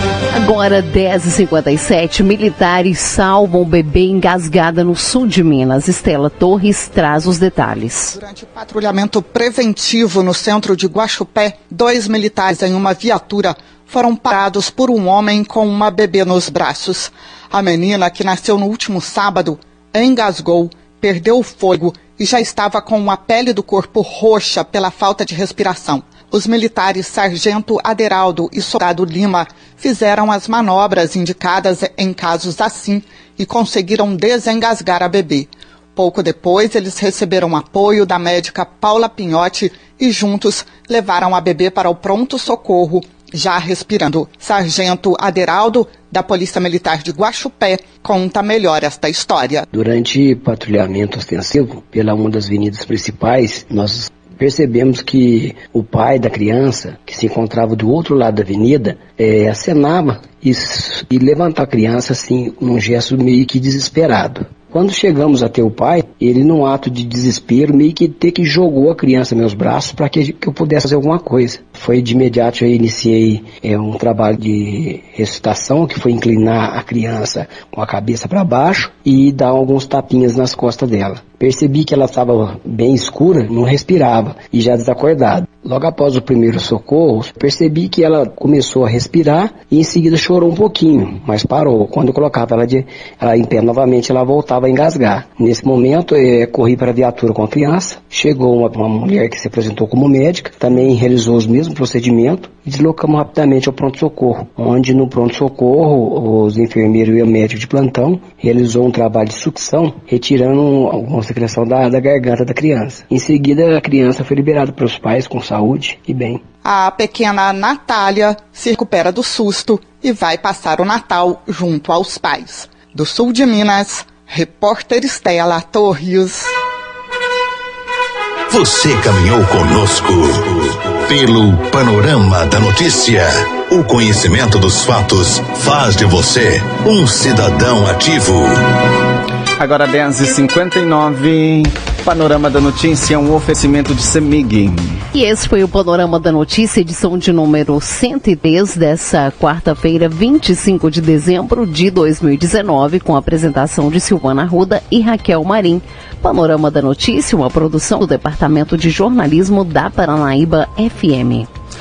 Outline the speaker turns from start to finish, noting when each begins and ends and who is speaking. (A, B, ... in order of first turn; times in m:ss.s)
0:00.3-0:08.1 A
0:08.1-0:49.6 B
0:49.7-1:56.4 C
1:56.6-2:06.5 B
2:08.5-2:18.6 D
2:19.6-2:25.0 E
2:25.1-2:41.5 A